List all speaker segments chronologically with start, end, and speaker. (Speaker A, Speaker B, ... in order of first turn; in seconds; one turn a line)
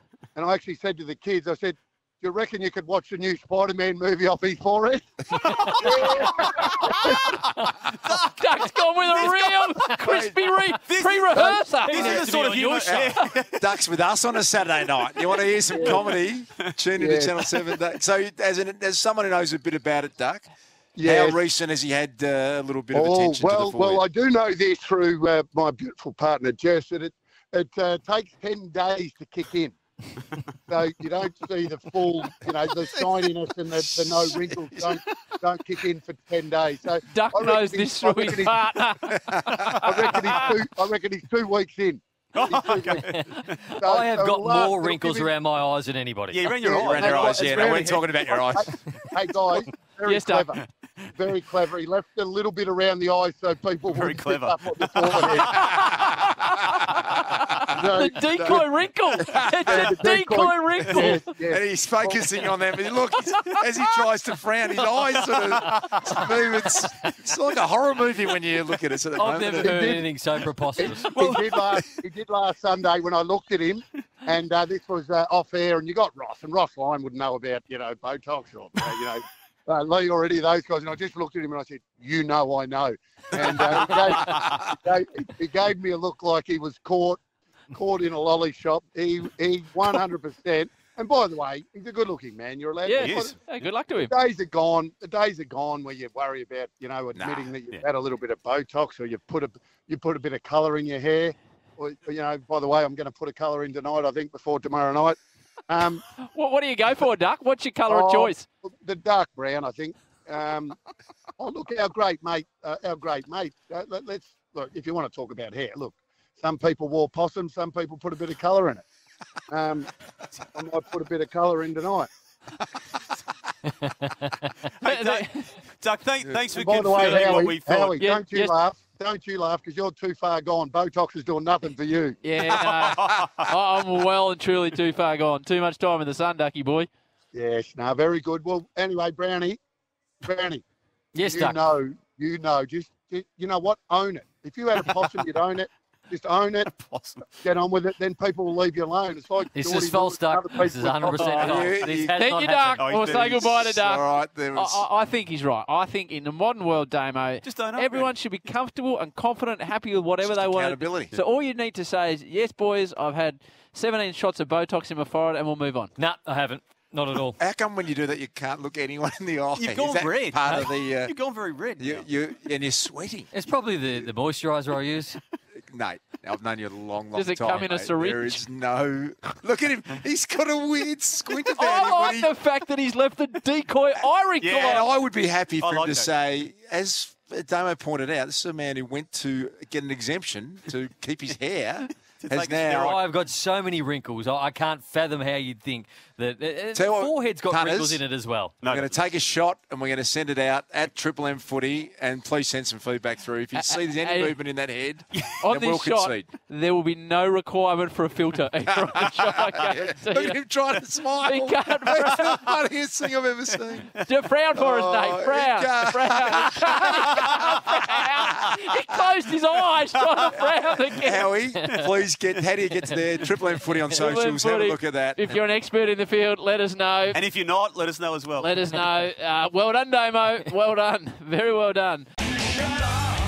Speaker A: 0.3-7.4
Speaker B: 5.6-9.7
Speaker C: 8.4-13.3
Speaker B: 10.8-13.7
Speaker D: 11.9-20.5
Speaker B: 15.2-16.2
Speaker A: 15.7-16.0
Speaker A: 17.0-17.4
Speaker A: 21.0-21.4
Speaker D: 21.0-24.0
Speaker A: 22.9-29.8
Speaker A: 30.7-38.7
Speaker D: 33.7-35.0
Speaker C: 37.1-39.7
Speaker D: 39.1-39.5
Speaker A: 39.8-43.1
Speaker B: 40.2-40.5
Speaker B: 42.3-43.6
Speaker E: 42.9-46.5
Speaker A: 43.8-45.3
Speaker B: 46.3-48.3
Speaker A: 46.6-56.1
Speaker D: 46.7-48.7
Speaker C: 50.0-50.6
Speaker B: 53.8-56.0
Speaker C: 57.2-61.2
Speaker A: 57.7-58.7
Speaker D: 58.4-58.7
Speaker D: 59.2-59.9
Speaker A: 59.3-62.2
Speaker D: 61.0-69.8
Speaker B: 65.0-67.2
Speaker E: 69.2-71.3
Speaker A: 69.6-70.1
Speaker A: 70.8-87.2
Speaker B: 71.0-71.9
Speaker B: 83.7-84.4
Speaker A: 87.7-93.4
Speaker C: 92.8-94.1
Speaker B: 93.0-93.4
Speaker A: 94.0-106.0
Speaker D: 97.2-97.5
Speaker C: 106.2-108.5
Speaker A: 107.9-110.8
Speaker A: 111.4-118.8
Speaker A: 119.5-119.9
Speaker A: 120.5-122.1
Speaker B: 124.8-128.0
Speaker C: 124.8-125.5
Speaker A: 126.5-132.2
Speaker C: 128.0-128.5
Speaker C: 132.2-136.9
Speaker B: 132.5-133.4
Speaker A: 137.3-139.6
Speaker A: 140.2-140.6
Speaker E: 141.1-141.7
Speaker A: 141.2-146.7
Speaker B: 146.7-147.3
Speaker A: 147.4-151.7
Speaker E: 149.5-153.0
Speaker C: 151.1-165.9
Speaker D: 151.4-152.1
Speaker B: 152.8-153.5
Speaker D: 153.1-154.9
Speaker B: 157.4-158.1
Speaker D: 160.2-161.2
Speaker E: 166.0-167.4
Speaker D: 167.4-171.2
Speaker B: 169.6-172.1
Speaker D: 171.8-173.3
Speaker E: 173.3-175.2
Speaker D: 175.7-182.3
Speaker C: 177.1-178.4
Speaker C: 181.6-184.9
Speaker B: 184.4-184.9
Speaker D: 184.6-193.0
Speaker B: 185.6-186.1
Speaker B: 192.2-193.0
Speaker E: 192.8-198.5
Speaker D: 196.7-198.0
Speaker B: 198.6-199.0
Speaker D: 198.6-206.3
Speaker C: 203.6-204.4
Speaker C: 205.4-210.6
Speaker D: 208.7-214.0
Speaker C: 211.2-212.5
Speaker B: 213.5-214.1
Speaker C: 214.1-221.3
Speaker D: 214.5-218.5
Speaker D: 220.9-225.4
Speaker B: 221.6-222.4
Speaker C: 223.9-227.2
Speaker B: 227.1-228.5
Speaker C: 228.4-232.1